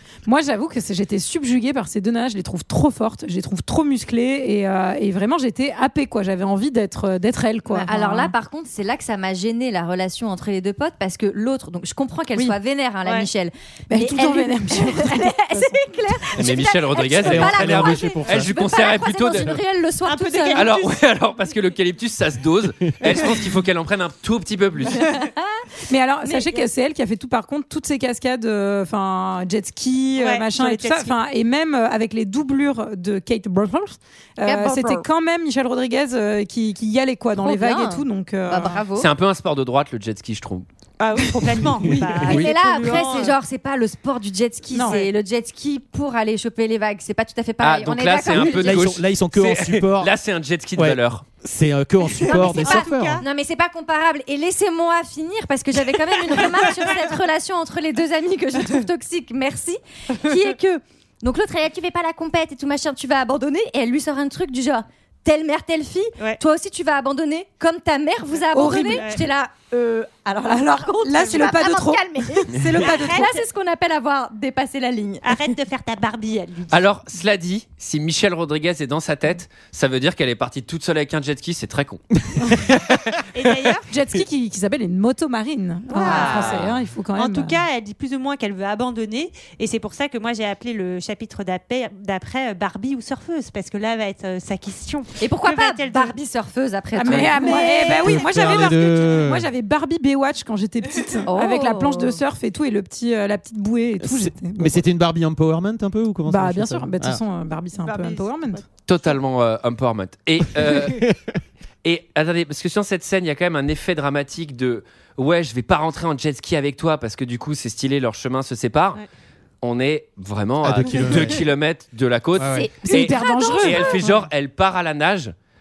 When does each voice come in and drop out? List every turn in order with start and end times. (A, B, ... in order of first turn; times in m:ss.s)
0:00.3-0:08.3 A
0:07.7-0:20.7 B
0:13.9-0:15.9 A
0:16.4-0:19.6 C
0:17.2-0:18.5 D
0:20.0-0:21.0 E
0:20.5-0:25.0 C
0:25.0-0:25.6 B
0:25.9-0:38.8 A
0:26.2-0:26.7 B
0:30.2-0:31.2 E
0:34.4-0:35.1 B
0:37.4-0:39.1 B
0:39.0-0:40.7 C
0:41.0-0:43.4 E
0:41.9-0:42.2 A
0:42.2-0:48.8 B
0:42.2-0:42.5 D
0:44.7-0:45.1 A
0:47.6-0:51.2 C
0:48.3-0:50.1 D
0:50.8-0:53.2 D
0:52.2-0:53.2 E
0:52.2-1:15.5 B
0:56.4-0:57.0 E
1:08.5-1:09.1 A
1:10.5-1:13.3 A
1:12.8-1:13.4 E
1:15.2-1:16.8 E
1:16.7-1:23.2 C
1:23.3-1:23.9 E
1:23.9-1:27.6 A
1:25.9-1:26.4 B
1:25.9-1:36.2 E
1:26.0-1:26.7 C
1:35.2-1:38.2 B
1:37.0-1:44.8 A
1:37.1-1:39.0 E
1:38.0-1:39.5 D
1:41.3-1:42.2 B
1:44.0-1:47.2 D
1:46.3-1:48.6 A
1:47.8-1:48.6 E
1:48.9-1:51.0 C
1:50.6-1:51.4 D
1:51.8-1:59.0 C
1:59.6-2:05.3 C
2:00.6-2:01.4 D
2:02.4-2:02.7 D
2:02.5-2:04.0 B
2:02.8-2:04.2 A